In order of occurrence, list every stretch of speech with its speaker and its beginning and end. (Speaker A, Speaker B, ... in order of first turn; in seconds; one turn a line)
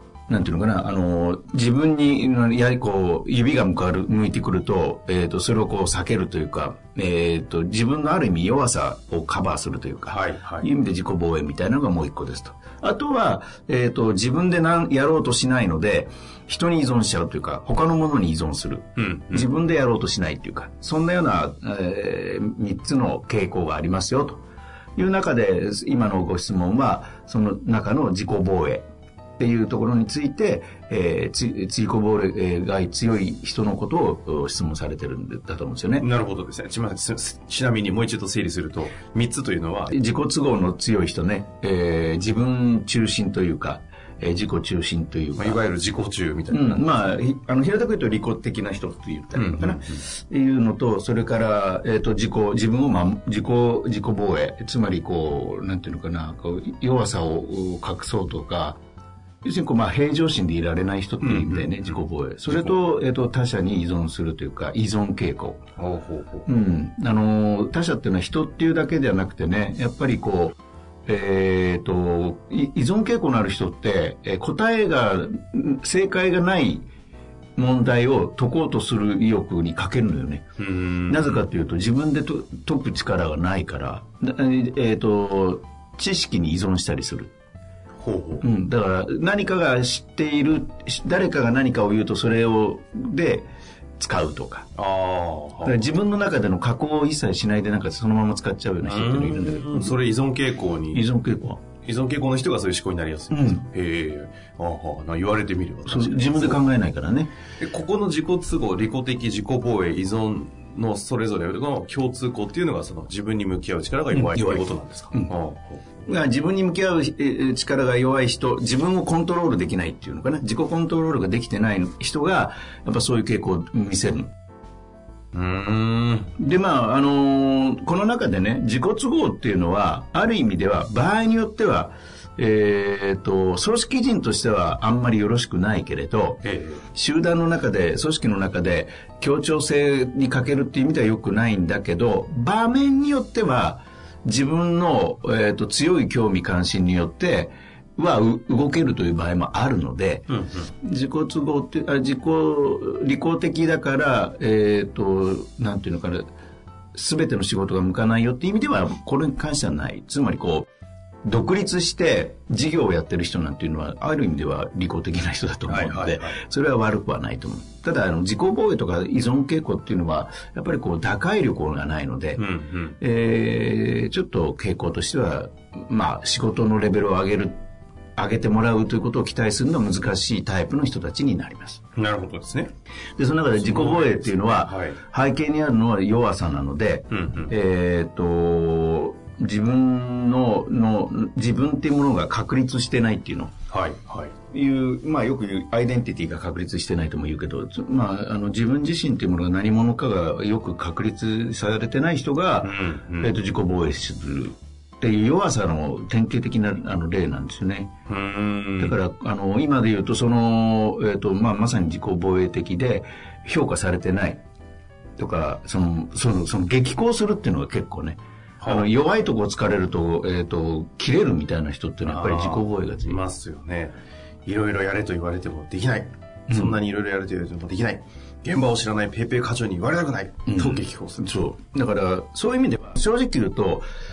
Speaker A: 0.3-24.4
Speaker B: 10.1-10.7
Speaker B: 19.0-19.5
Speaker A: 24.9-28.9
Speaker A: 29.4-36.1
Speaker B: 36.0-40.0
Speaker A: 39.9-45.6
Speaker B: 45.4-46.9
Speaker A: 46.5-58.8
Speaker B: 49.4-50.0
Speaker A: 59.4-65.6
Speaker B: 61.2-62.0
Speaker B: 62.5-62.8
Speaker B: 65.8-66.5
Speaker A: 66.5-76.9
Speaker A: 77.6-80.4
Speaker B: 80.6-81.4
Speaker A: 81.1-87.3
Speaker B: 88.0-88.5
Speaker A: 88.4-93.5
Speaker A: 94.0-94.7
Speaker B: 94.8-95.8
Speaker A: 95.6-100.0
Speaker B: 98.8-101.1
Speaker A: 100.9-101.6
Speaker B: 101.8-106.6
Speaker A: 103.3-103.7
Speaker A: 105.9-107.3
Speaker B: 107.6-116.1
Speaker A: 114.1-115.3
Speaker A: 116.1-124.3
Speaker B: 125.3-126.3
Speaker A: 126.4-136.4
Speaker B: 136.4-136.8
Speaker A: 136.9-156.3
Speaker B: 150.3-150.7
Speaker A: 156.9-160.7
Speaker A: 161.2-172.4
Speaker B: 165.7-166.4
Speaker B: 172.4-173.0
Speaker A: 173.0-177.6
Speaker A: 178.2-181.8
Speaker B: 182.0-182.7
Speaker A: 183.2-193.5
Speaker B: 183.6-185.0
Speaker B: 187.1-187.5
Speaker B: 193.7-194.3
Speaker A: 194.5-207.9
Speaker B: 202.6-203.3
Speaker B: 208.1-209.0
Speaker A: 208.8-214.4
Speaker A: 215.2-223.2
Speaker B: 218.6-218.9
Speaker B: 222.0-223.9
Speaker B: 224.5-231.3
Speaker A: 226.5-226.8
Speaker A: 230.5-233.9